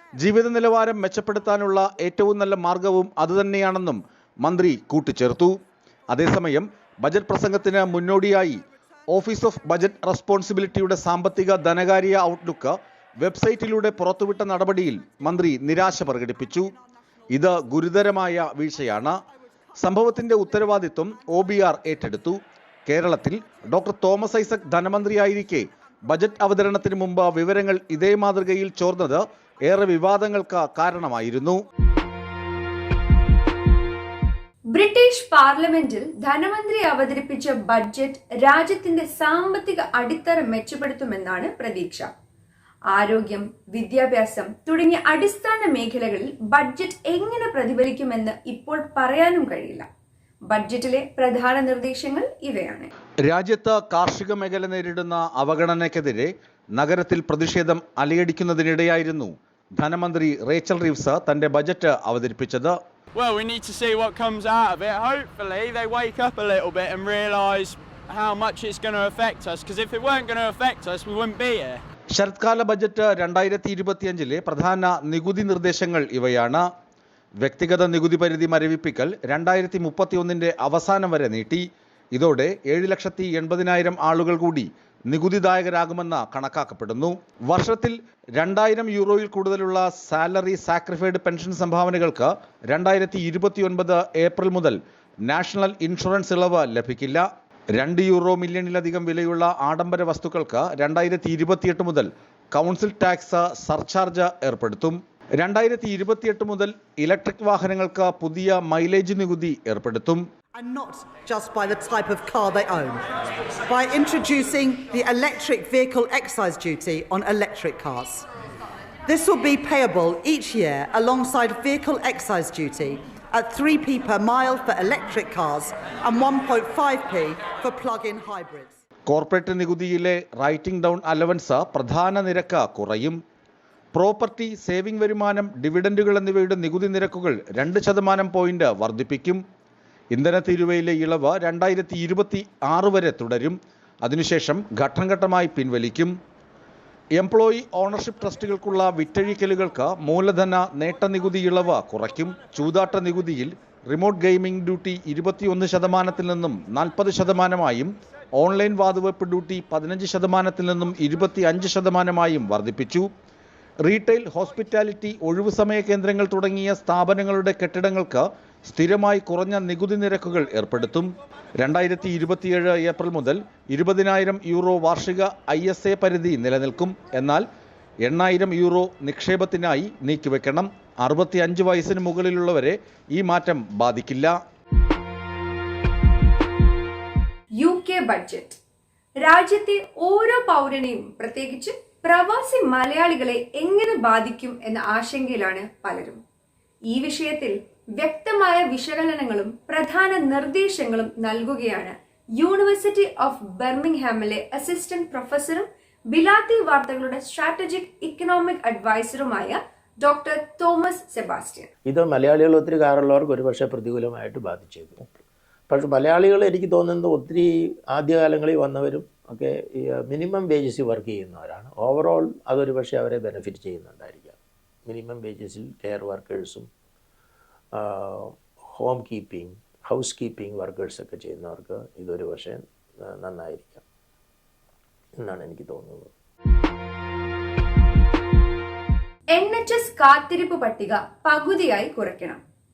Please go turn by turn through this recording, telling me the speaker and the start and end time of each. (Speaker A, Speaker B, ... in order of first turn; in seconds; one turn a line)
Speaker A: 0.2-5.6
Speaker A: 6.1-16.7
Speaker B: 15.1-17.2
Speaker A: 17.3-19.1
Speaker B: 18.7-19.1
Speaker B: 19.7-21.9
Speaker A: 19.8-22.4
Speaker A: 22.9-31.6
Speaker C: 34.7-42.1
Speaker C: 42.9-49.9
Speaker C: 50.5-52.9
Speaker A: 53.2-62.8
Speaker D: 63.1-71.8
Speaker A: 72.1-76.6
Speaker A: 77.4-110.2
Speaker B: 110.5-113.0
Speaker B: 113.7-118.2
Speaker B: 119.1-128.8
Speaker A: 129.1-133.2
Speaker A: 133.9-139.4
Speaker A: 140.1-146.1
Speaker A: 147.2-163.1
Speaker A: 163.8-171.1
Speaker A: 171.6-177.4
Speaker A: 178.0-184.4
Speaker C: 187.6-188.6
Speaker C: 189.2-196.2
Speaker C: 196.9-211.7
Speaker E: 211.8-226.7
Speaker E: 227.7-233.8
Speaker E: 235.2-236.1
Speaker C: 239.3-242.4